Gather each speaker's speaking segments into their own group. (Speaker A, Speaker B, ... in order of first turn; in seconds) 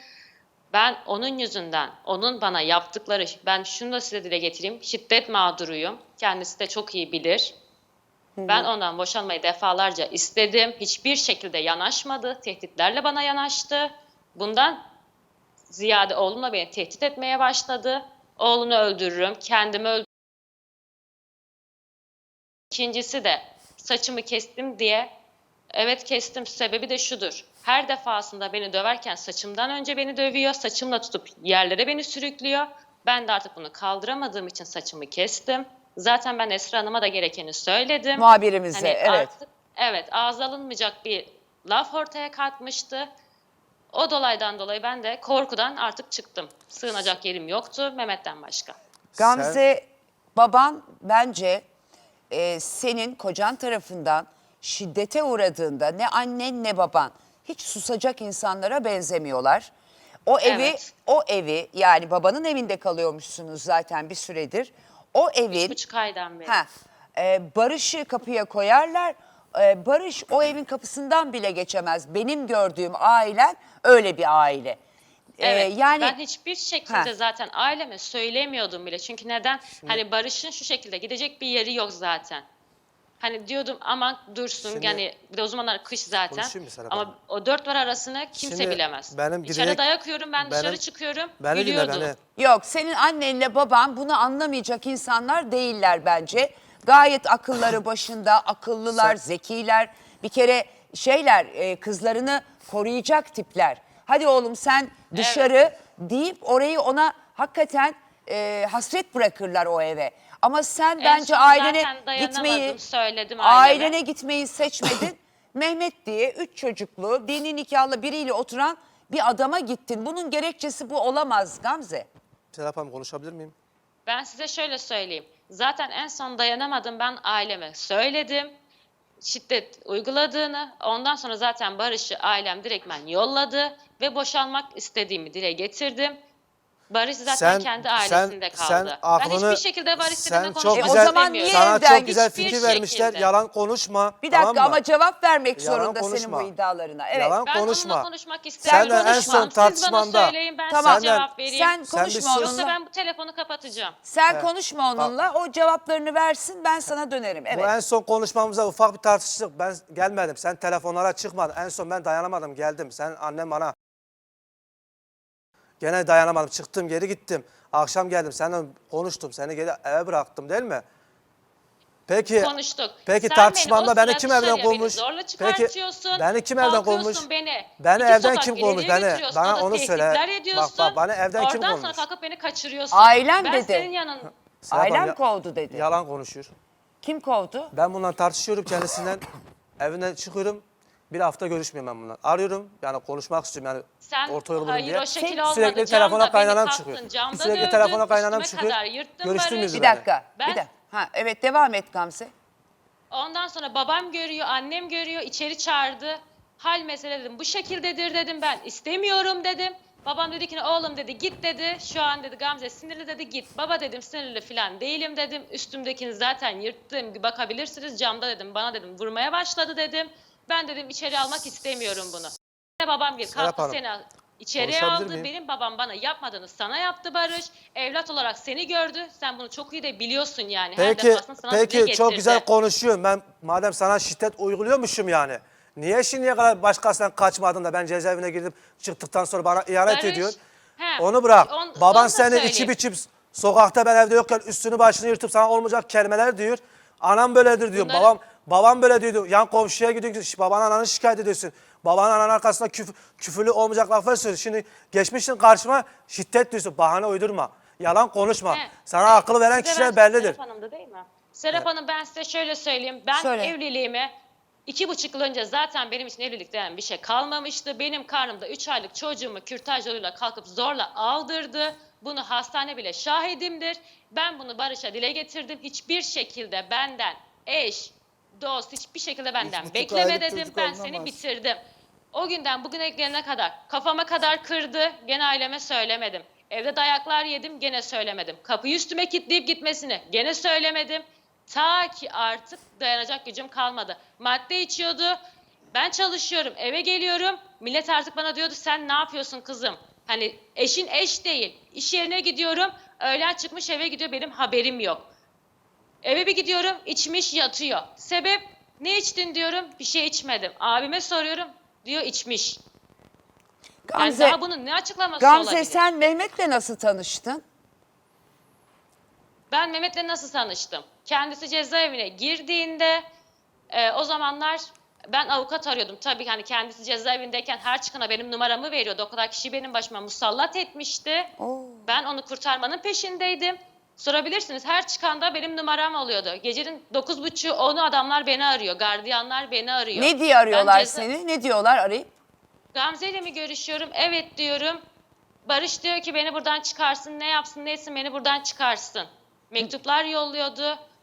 Speaker A: 0.7-7.5, 8.5-14.8, 15.7-20.0, 22.7-25.1, 25.7-43.1, 43.9-48.8, 60.4-60.9, 65.5-66.6, 75.4-82.4, 83.2-92.1, 105.1-105.5, 111.0-113.9, 124.1-128.5, 129.2-136.2, 136.9-143.3, 147.4-154.0, 172.2-184.3, 194.0-199.9, 200.4-200.6, 203.1-232.4, 239.9-242.7, 247.7-248.1, 258.5-264.1, 264.7-281.6, 282.1-295.2, 295.7-305.1, 306.0-312.6, 314.0-315.8, 319.5-323.0, 323.7-331.3, 331.8-341.1, 342.7-344.8, 345.4-350.8
Speaker B: 8.4-8.7, 38.1-39.3, 49.2-51.6, 52.3-59.7, 60.2-65.8, 66.4-74.8, 75.4-76.2, 92.3-112.8, 113.4-122.1, 140.7-142.8, 144.2-147.4, 148.7-149.5, 150.7-152.7, 154.0-157.7, 182.9-183.9, 184.7-185.8, 187.0-187.7, 199.7-202.3, 263.1-263.5, 313.9-314.4, 315.2-317.4, 331.4-331.9, 339.9-342.1
Speaker C: 49.1-49.6, 84.6-85.0, 86.3-87.1, 88.3-89.8, 90.4-90.8, 91.4-92.2, 122.5-123.5, 137.2-144.8, 145.6-146.5, 147.1-148.1, 148.6-151.3, 151.9-152.6, 154.3-155.1, 157.5-163.7, 165.8-170.8, 172.1-172.5, 173.0-177.2, 177.8-182.0, 184.6-185.2, 185.7-186.5, 187.7-189.2, 189.8-200.0, 223.3-223.8, 224.6-225.3, 230.8-240.4, 241.0-260.4